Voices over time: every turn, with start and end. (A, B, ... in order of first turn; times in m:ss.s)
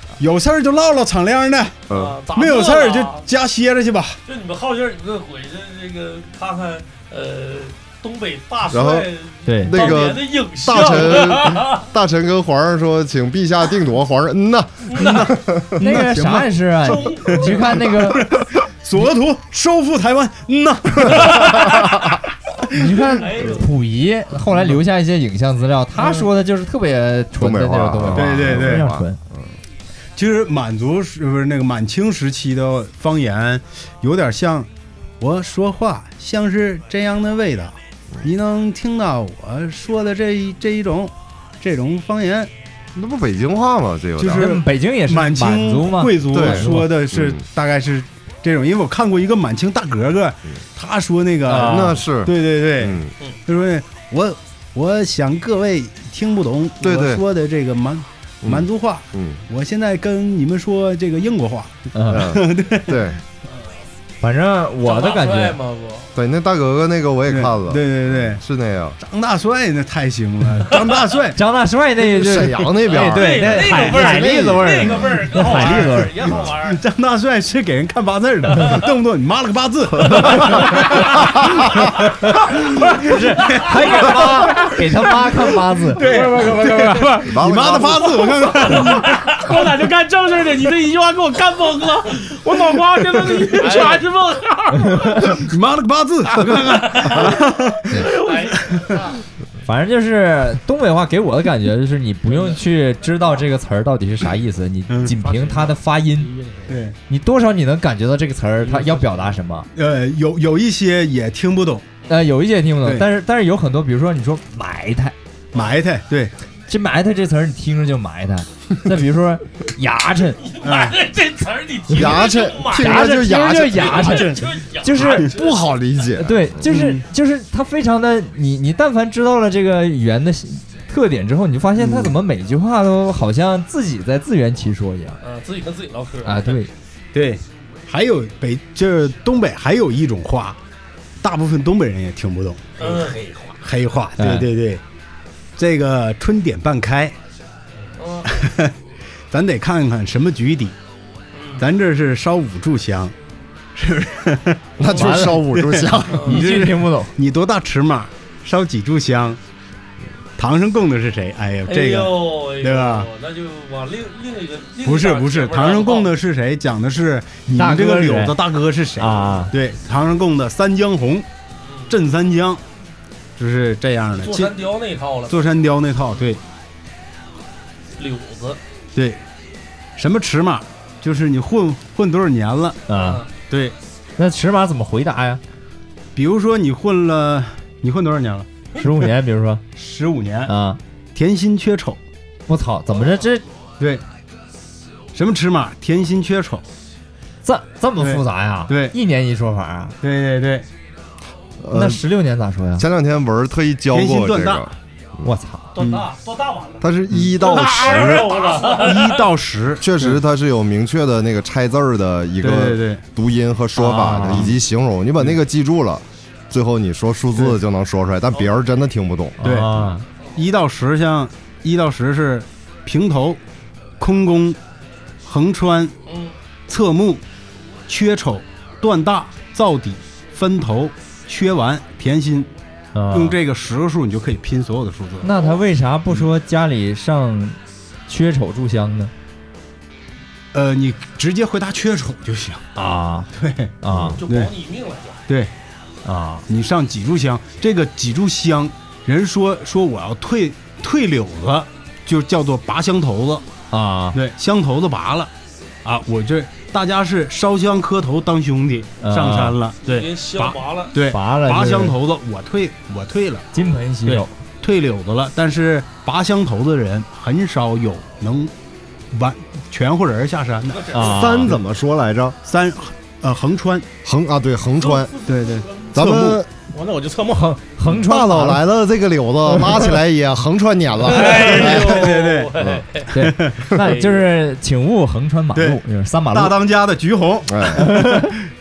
0:00.2-0:01.8 A
0:01.9-0:02.1 B
0:01.9-0:03.3 C
0:02.3-0:04.2 A
0:04.2-0:11.9 C
0:08.7-0:15.9 B
0:09.4-0:10.0 D
0:14.9-0:15.3 C
0:15.0-0:22.1 A
0:15.8-0:18.3 D
0:16.8-0:17.9 C
0:22.7-0:29.2 D
0:23.2-0:23.7 C
0:24.5-0:24.8 A
0:26.0-0:26.3 A
0:27.4-0:29.4 B
0:28.1-0:28.8 A
0:30.2-0:34.7 A
0:35.2-0:42.5 A
0:42.9-0:44.5 B
0:44.2-1:03.1 A
0:44.3-0:46.9 D
0:46.3-0:47.4 B
0:51.4-0:52.0 D
0:51.6-0:53.1 B
0:56.8-0:57.2 B
0:58.4-0:59.4 B
1:01.9-1:02.3 D
1:02.1-1:03.2 B
1:03.4-1:03.8 C
1:04.2-1:05.6 D
1:04.8-1:06.1 C
1:06.1-1:09.0 B
1:07.3-1:08.4 A
1:09.0-1:11.4 A
1:11.3-1:16.3 D
1:12.0-1:15.0 B
1:12.9-1:16.8 C
1:15.4-1:15.9 A
1:16.6-1:24.7 A
1:23.0-1:26.0 D
1:23.6-1:24.8 E
1:25.9-1:29.2 A
1:25.9-1:35.4 E
1:27.2-1:28.2 B
1:33.6-1:34.0 C
1:35.2-1:38.1 A
1:36.3-1:37.4 E
1:37.0-1:39.1 C
1:37.9-1:39.0 E
1:38.6-1:39.0 A
1:39.6-1:46.3 D
1:44.9-1:45.1 A
1:45.1-1:46.8 E
1:46.7-1:47.0 A
1:47.1-1:49.7 D
1:49.7-1:51.9 A
1:52.1-1:55.1 D
1:55.5-1:56.3 A
1:56.7-2:00.4 D
2:00.4-2:03.2 C
2:00.6-2:01.0 A
2:01.9-2:04.0 B
2:02.7-2:05.3 D
2:03.7-2:05.8 C
2:04.0-2:04.5 A
2:05.2-2:06.8 B
2:06.2-2:15.2 D
2:06.7-2:07.0 A
2:11.8-2:12.1 A
2:15.2-2:16.6 C
2:16.2-2:16.7 D
2:17.1-2:20.6 A
2:21.2-2:22.8 A
2:22.8-2:23.2 C
2:22.8-2:23.6 E
2:23.6-2:24.8 A
2:24.2-2:24.5 D
2:25.6-2:27.1 A
2:28.0-2:28.3 C
2:28.3-2:28.7 A
2:29.3-2:30.7 A
2:31.3-2:31.6 C
2:31.6-2:33.1 A
2:33.7-2:39.4 A
2:34.8-2:36.4 B
2:34.9-2:35.5 D
2:36.1-2:36.4 C
2:36.2-2:37.1 D
2:40.4-2:43.1 A
2:41.7-2:46.1 C
2:44.8-2:51.3 A
2:47.5-2:48.4 D
2:49.0-2:49.5 D
2:51.6-2:51.9 C
2:51.9-2:52.6 A
2:53.4-2:54.6 A
2:54.2-2:55.5 C
2:55.3-2:56.4 A
2:58.0-2:58.6 C
2:58.9-2:59.2 A
3:00.0-3:02.8 A
3:02.9-3:03.2 D
3:03.0-3:03.3 C
3:03.5-3:03.8 A
3:04.2-3:05.4 D
3:06.1-3:08.5 A
3:08.8-3:09.6 D
3:09.7-3:10.5 A
3:10.4-3:10.8 D
3:11.1-3:12.0 A
3:12.5-3:13.4 D
3:15.1-3:16.6 A
3:17.4-3:20.0 D
3:18.0-3:19.0 A
3:20.0-3:20.7 A
3:21.6-3:22.0 B
3:21.7-3:22.8 D
3:22.8-3:25.3 B
3:23.9-3:24.7 A
3:25.2-3:25.8 D
3:25.7-3:26.8 C
3:25.8-3:26.1 A
3:26.8-3:28.5 B
3:27.4-3:29.2 C
3:27.7-3:28.8 E
3:28.7-3:30.2 A
3:29.8-3:39.4 B
3:32.4-3:33.0 A
3:33.8-3:34.5 D
3:34.0-3:34.6 A
3:39.4-3:40.0 D
3:39.4-3:43.4 A
3:44.0-3:44.6 A
3:45.2-3:46.0 A
3:46.0-3:46.3 C
3:46.7-3:47.2 A
3:47.9-3:52.5 A
3:52.9-3:53.4 D
3:53.1-3:55.3 A
3:55.2-3:59.1 D
4:00.5-4:02.6 A
4:02.7-4:04.2 D
4:03.3-4:03.7 A
4:03.9-4:04.2 B
4:04.1-4:05.3 C
4:04.3-4:04.5 A
4:06.0-4:06.4 D
4:06.5-4:13.4 A
4:13.7-4:14.2 D
4:14.1-4:15.3 A
4:15.8-4:23.5 A
4:19.0-4:19.6 D
4:19.8-4:21.0 C
4:21.0-4:22.0 D
4:23.5-4:24.3 D
4:24.0-4:28.5 A
4:29.1-4:31.5 A
4:30.7-4:31.0 C
4:30.9-4:31.6 D
4:30.9-4:32.4 B
4:32.4-4:33.9 A
4:34.0-4:35.2 B
4:34.8-4:35.9 E
4:35.2-4:36.4 A
4:35.9-4:36.5 B
4:36.7-4:37.7 E
4:37.6-4:38.7 D
4:37.9-4:42.8 B
4:41.0-4:43.1 C
4:41.1-4:42.6 A
4:43.1-4:46.6 D
4:43.1-4:43.7 A
4:43.7-4:44.3 C
4:45.5-4:45.8 A
4:46.3-4:48.3 A
4:47.5-4:48.0 B
4:47.8-4:48.3 D